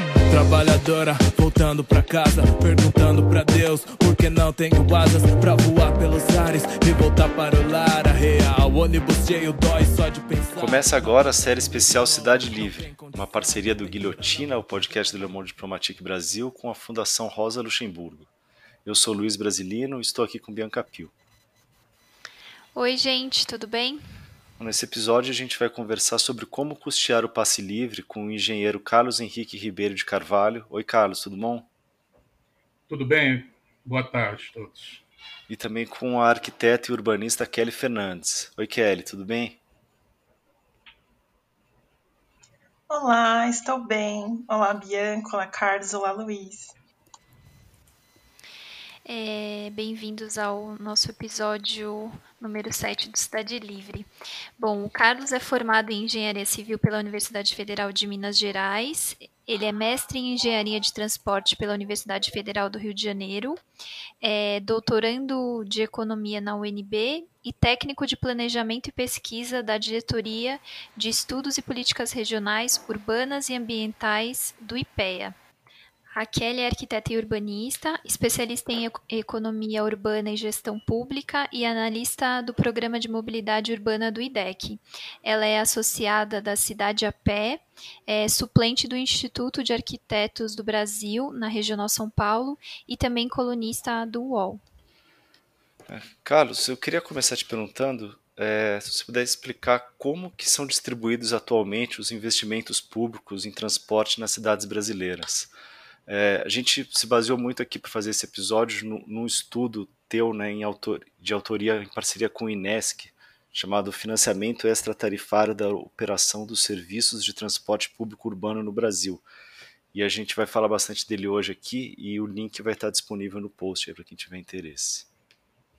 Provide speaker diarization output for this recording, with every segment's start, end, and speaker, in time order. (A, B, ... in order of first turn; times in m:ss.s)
0:00.3-0:14.6 A
0:10.6-0:18.3 B
0:18.8-0:21.1 B
0:22.8-0:24.0 C
0:24.6-0:31.7 B
0:32.9-0:35.0 D
0:35.5-0:39.6 B
0:42.9-0:46.7 E
0:49.0-1:03.6 C
1:04.2-1:15.4 C
1:16.2-1:34.6 C
1:35.9-1:45.5 B
1:46.1-1:59.2 B
1:59.9-2:05.1 B